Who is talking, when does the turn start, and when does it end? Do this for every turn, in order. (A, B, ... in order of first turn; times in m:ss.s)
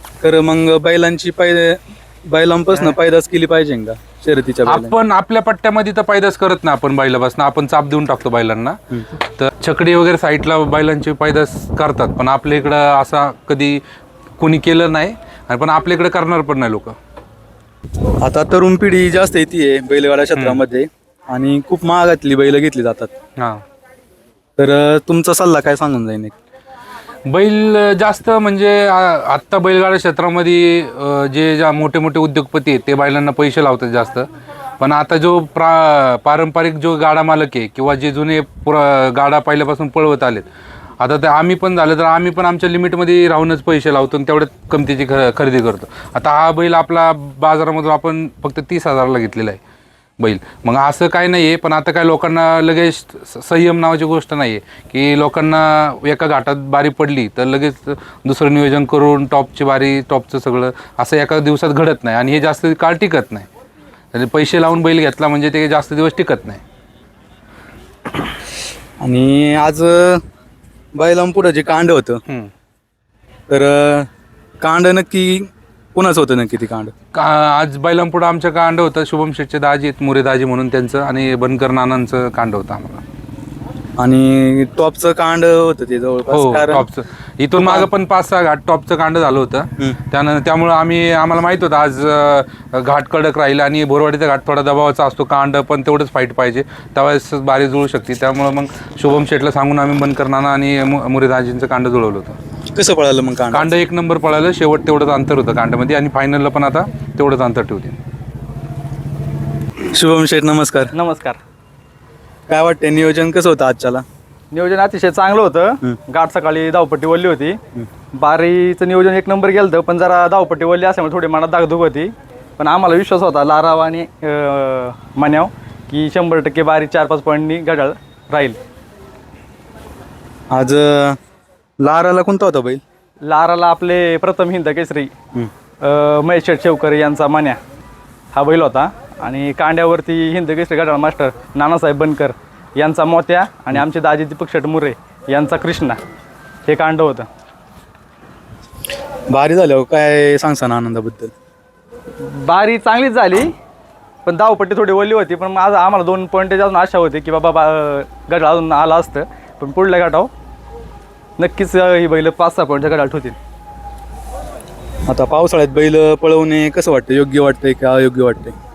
0:00.2-0:04.9 A
0:04.6-0:13.8 B
0:14.4-0:17.0 B
0:18.2-0:23.1 A
0:20.4-0:20.6 B
0:23.4-0:23.6 B
0:24.6-0:26.3 A
0:27.3-0:34.3 B
0:34.8-0:40.5 B
0:41.0-0:49.6 B
0:50.2-1:03.5 B
1:04.1-1:06.6 B
1:09.0-1:10.2 A
1:11.0-1:12.2 A
1:12.3-1:12.5 B
1:13.5-1:14.1 A
1:14.6-1:16.9 A
1:17.1-1:23.0 B
1:24.0-1:26.9 A
1:26.3-1:42.4 B
1:27.6-1:27.9 A
1:42.8-1:43.8 A
1:43.5-1:48.0 B
1:50.0-1:50.9 A
1:50.9-1:51.4 C
1:52.5-1:54.0 A
1:54.5-1:57.6 C
1:58.2-2:08.6 C
2:10.5-2:11.2 A
2:11.8-2:12.8 A
2:13.2-2:15.1 C
2:15.8-2:17.6 C
2:18.3-2:26.0 C
2:26.7-2:27.3 C
2:29.3-2:31.3 A
2:32.2-2:33.5 C
2:34.2-2:40.3 C
2:41.4-2:43.4 C
2:45.1-2:48.6 A